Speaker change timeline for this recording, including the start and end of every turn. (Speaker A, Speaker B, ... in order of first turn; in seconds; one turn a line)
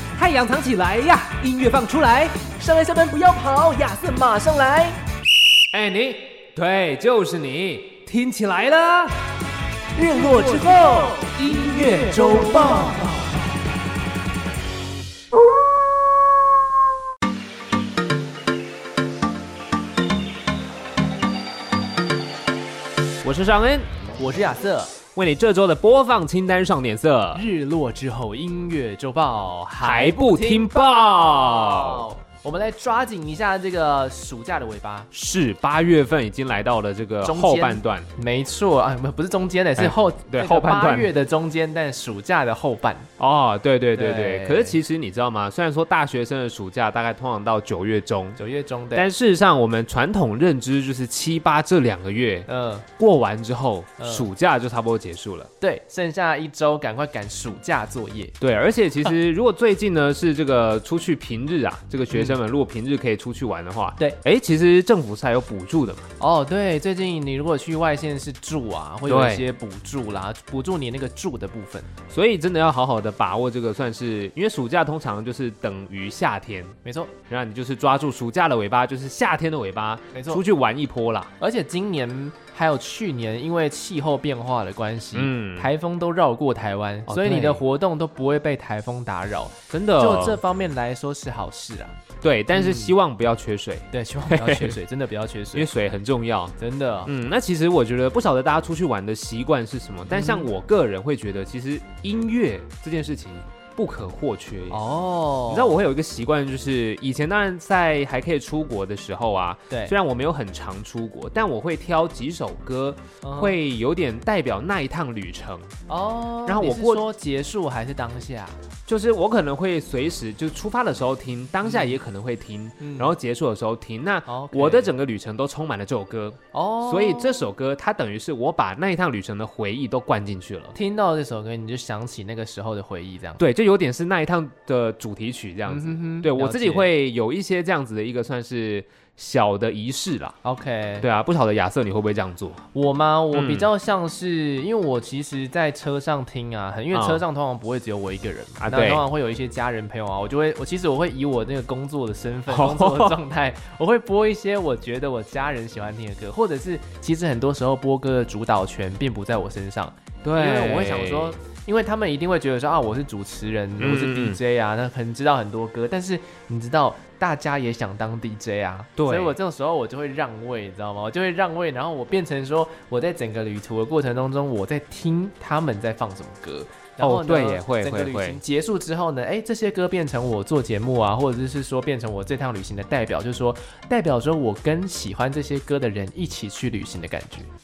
Speaker A: 0.1-2.4
Speaker B: 2.6-5.0
Speaker A: 5.7-9.2
Speaker B: 10.0-11.3
Speaker A: 11.3-13.2
Speaker B: 12.1-13.3
Speaker A: 23.2-23.9
Speaker B: 24.2-25.0
Speaker A: 25.1-27.4
Speaker B: 27.3-35.1
Speaker A: 29.8-32.1
Speaker A: 35.1-38.1
Speaker B: 37.2-43.1
Speaker A: 39.8-41.1
Speaker A: 43.2-48.4
Speaker B: 43.9-44.8
Speaker B: 48.4-49.1
Speaker A: 48.9-55.5
Speaker B: 52.5-52.9
Speaker B: 54.0-54.3
Speaker B: 55.6-58.4
Speaker A: 58.4-66.1
Speaker B: 62.1-62.4
Speaker B: 66.2-71.9
Speaker A: 69.1-69.5
Speaker A: 72.1-76.8
Speaker B: 76.8-77.1
Speaker A: 77.3-81.3
Speaker B: 80.1-80.4
Speaker B: 81.4-92.0
Speaker A: 85.1-85.7
Speaker A: 87.1-87.6
Speaker A: 89.7-90.4
Speaker A: 92.2-94.8
Speaker B: 92.5-92.9
Speaker B: 93.9-95.7
Speaker A: 95.5-96.5
Speaker B: 96.6-97.1
Speaker A: 97.1-104.8
Speaker B: 100.1-100.5
Speaker B: 104.7-105.8
Speaker A: 105.5-115.7
Speaker B: 113.2-113.6
Speaker B: 115.9-118.6
Speaker A: 116.5-117.0
Speaker A: 118.9-130.8
Speaker B: 121.6-122.0
Speaker B: 122.8-123.2
Speaker B: 124.3-124.9
Speaker B: 126.5-127.5
Speaker B: 130.7-133.4
Speaker A: 133.4-140.4
Speaker B: 135.7-136.9
Speaker B: 140.4-141.1
Speaker A: 141.0-142.6
Speaker B: 142.7-187.5
Speaker A: 143.3-143.7
Speaker A: 146.9-147.2
Speaker A: 148.6-149.0
Speaker A: 152.5-153.2
Speaker A: 160.2-161.4
Speaker A: 163.8-164.4
Speaker A: 169.0-169.3
Speaker A: 177.0-178.4